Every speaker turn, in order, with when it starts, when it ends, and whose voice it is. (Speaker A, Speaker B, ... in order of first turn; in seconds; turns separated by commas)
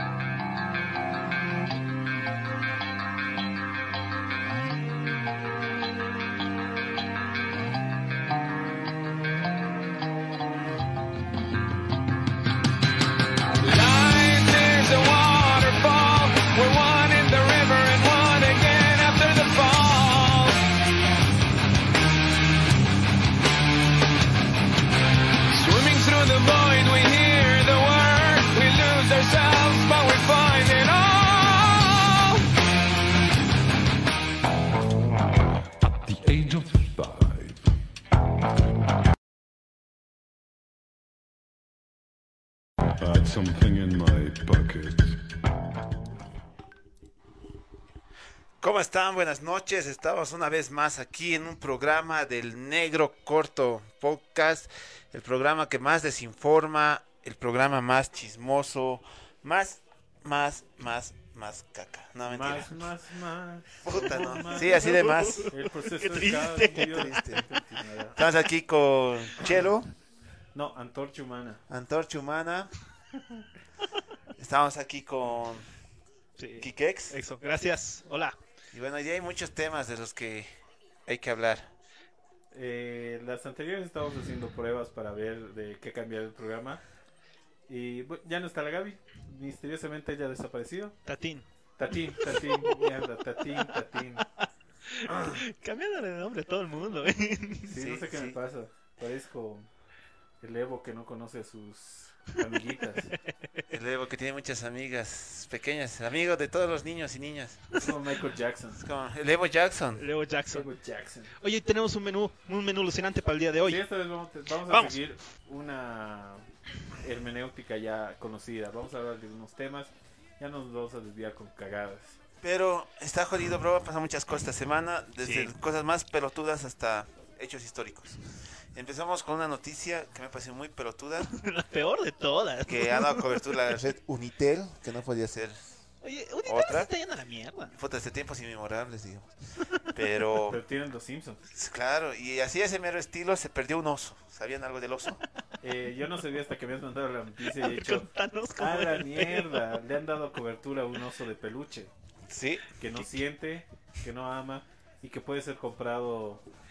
Speaker A: 13.6-20.6, Speaker A: 25.5-32.4, Speaker B: 35.9-37.7, Speaker B: 43.0-45.2, Speaker C: 48.6-62.8, Speaker D: 62.2-64.8, Speaker C: 63.8-65.5, Speaker E: 64.4-67.2, Speaker D: 65.5-68.2, Speaker C: 66.7-67.5, Speaker C: 68.1-69.9, Speaker D: 70.5-71.6, Speaker C: 71.7-72.7, Speaker C: 74.4-75.7, Speaker E: 76.4-78.3, Speaker C: 76.6-77.2, Speaker C: 78.7-80.5, Speaker C: 81.0-81.7, Speaker D: 82.5-86.8, Speaker D: 87.7-91.0, Speaker E: 91.0-91.5, Speaker D: 91.8-94.3, Speaker E: 92.3-92.9, Speaker E: 94.4-97.7, Speaker D: 95.1-95.4, Speaker D: 97.6-99.7, Speaker C: 97.7-98.4, Speaker D: 100.4-103.1, Speaker C: 103.7-107.8, Speaker D: 107.8-108.8, Speaker C: 108.8-110.0, Speaker E: 110.0-110.7, Speaker D: 110.5-111.3, Speaker E: 111.4-113.8, Speaker D: 113.6-116.4, Speaker E: 114.7-115.0, Speaker D: 117.0-122.2, Speaker C: 122.4-128.2, Speaker E: 125.2-125.5, Speaker C: 128.7-131.3, Speaker E: 131.2-133.6, Speaker C: 132.7-135.8, Speaker E: 136.0-137.7, Speaker C: 136.4-136.9, Speaker C: 137.7-139.3, Speaker C: 139.9-140.6, Speaker D: 140.5-141.4, Speaker C: 141.5-145.2, Speaker D: 145.6-151.9, Speaker E: 147.4-149.7, Speaker C: 152.3-152.6, Speaker D: 152.8-156.4